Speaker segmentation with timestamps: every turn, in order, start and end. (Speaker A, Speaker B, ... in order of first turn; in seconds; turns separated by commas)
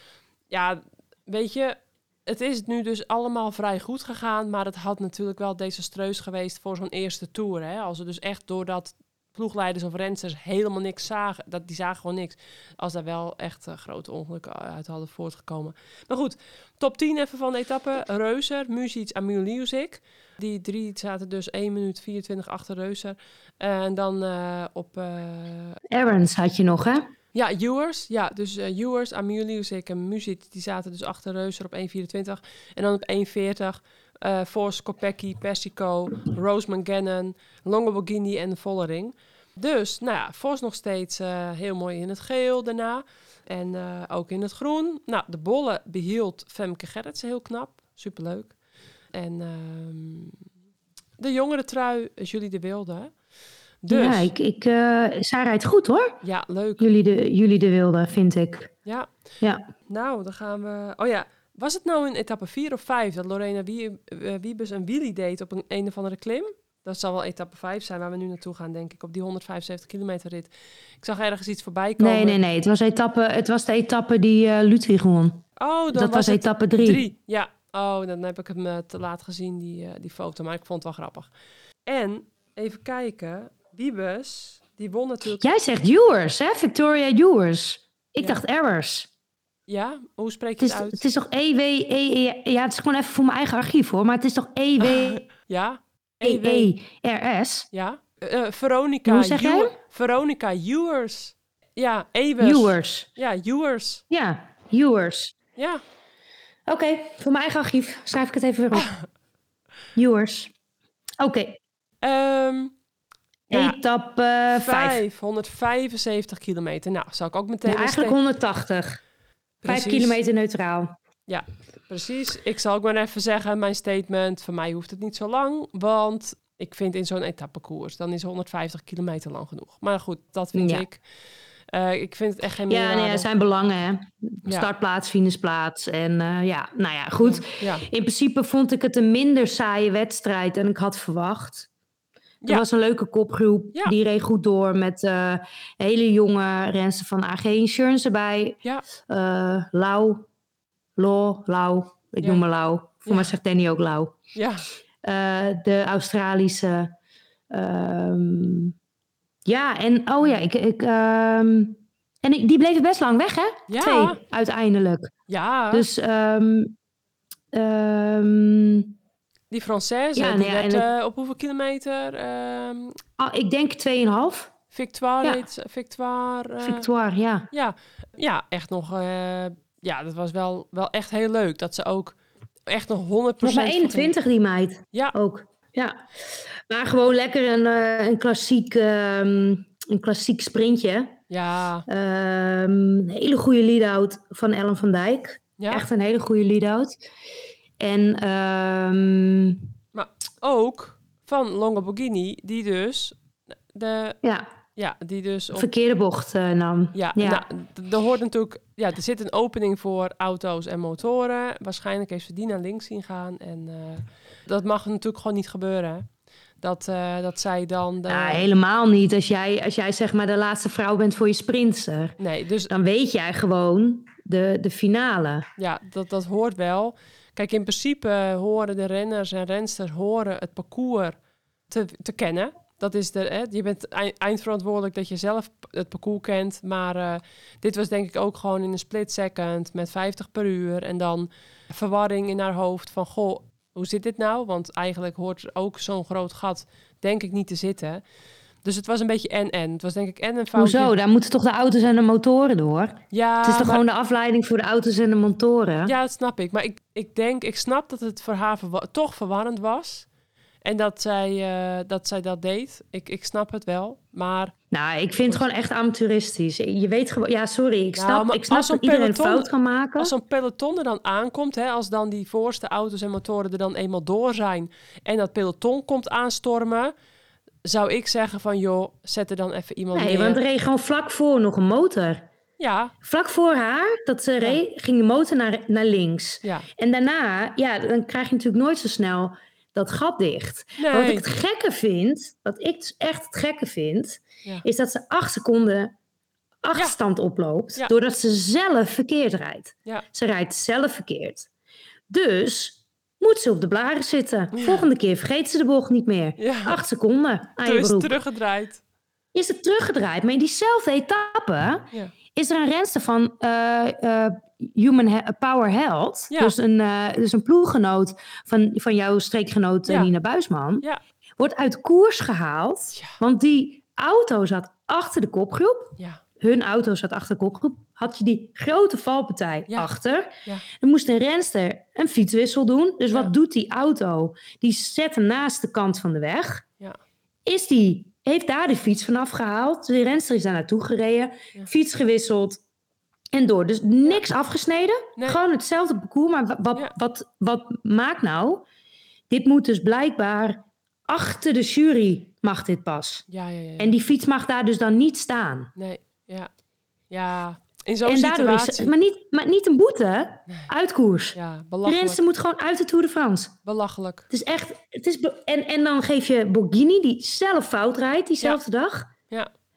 Speaker A: 0.5-25.8, Speaker B: 25.9-27.1, Speaker A: 27.3-48.5, Speaker A: 49.1-50.4, Speaker A: 51.2-53.1, Speaker A: 53.8-54.3, Speaker B: 53.9-56.2, Speaker A: 56.2-56.9, Speaker B: 56.8-58.7, Speaker A: 59.9-72.4, Speaker B: 72.0-77.0, Speaker A: 75.6-81.3, Speaker A: 81.8-85.4, Speaker B: 85.4-89.1, Speaker A: 89.7-91.0, Speaker B: 90.6-95.2, Speaker A: 94.8-96.7, Speaker B: 96.2-97.7, Speaker A: 97.7-104.0, Speaker B: 99.0-99.7, Speaker B: 102.4-103.1, Speaker B: 104.1-105.3, Speaker A: 105.6-105.8, Speaker B: 106.7-108.9, Speaker A: 108.8-109.0, Speaker B: 110.0-110.5, Speaker B: 111.2-111.6, Speaker A: 112.0-112.7, Speaker A: 113.5-113.8, Speaker B: 113.5-115.0, Speaker A: 114.5-118.2, Speaker B: 117.6-119.0, Speaker A: 119.6-120.2, Speaker B: 119.6-120.9, Speaker A: 121.3-131.0, Speaker B: 130.5-130.8, Speaker A: 131.7-133.3, Speaker B: 132.7-141.7, Speaker A: 137.2-137.8, Speaker B: 142.4-150.2, Speaker B: 150.9-154.2, Speaker A: 154.3-154.7, Speaker B: 155.0-156.9, Speaker B: 157.5-158.7, Speaker B: 159.4-165.1, Speaker A: 163.7-164.2, Speaker A: 165.3-165.9, Speaker B: 165.7-166.7, Speaker B: 167.5-168.9, Speaker A: 169.5-173.0, Speaker B: 170.2-170.9, Speaker B: 173.2-174.5, Speaker A: 174.7-176.9, Speaker B: 176.6-177.5, Speaker A: 177.5-182.2, Speaker A: 182.7-184.1, Speaker B: 183.4-186.0, Speaker B: 186.7-191.2, Speaker A: 191.3-191.8, Speaker B: 191.9-197.0, Speaker A: 195.6-195.8, Speaker B: 197.8-199.7, Speaker A: 199.9-203.2, Speaker A: 203.7-204.2, Speaker B: 204.2-204.5, Speaker A: 204.8-205.7, Speaker B: 205.5-207.4, Speaker A: 206.9-216.1, Speaker A: 216.6-218.5, Speaker B: 218.1-222.2, Speaker A: 222.2-222.7, Speaker B: 222.7-225.5, Speaker A: 225.6-231.2, Speaker A: 231.7-248.0, Speaker A: 248.6-250.9, Speaker B: 250.5-255.9, Speaker A: 253.1-253.8, Speaker A: 255.8-260.1, Speaker A: 260.6-264.5, Speaker B: 264.7-270.1, Speaker A: 267.9-276.9, Speaker A: 277.6-280.4, Speaker B: 279.9-282.2, Speaker A: 282.6-282.9, Speaker B: 283.0-295.9, Speaker A: 290.8-291.2, Speaker B: 296.6-301.5, Speaker B: 302.1-308.2, Speaker A: 304.5-304.9, Speaker A: 306.4-306.8, Speaker A: 307.6-308.8, Speaker B: 309.3-320.9, Speaker B: 321.4-336.6, Speaker A: 322.9-323.2, Speaker B: 337.4-342.6, Speaker B: 343.3-348.6, Speaker B: 349.3-353.2, Speaker A: 353.3-353.9, Speaker B: 353.8-355.7, Speaker A: 355.8-356.5, Speaker A: 357.1-358.9, Speaker B: 358.0-363.5, Speaker A: 361.3-362.2, Speaker A: 363.6-364.3, Speaker B: 364.3-369.1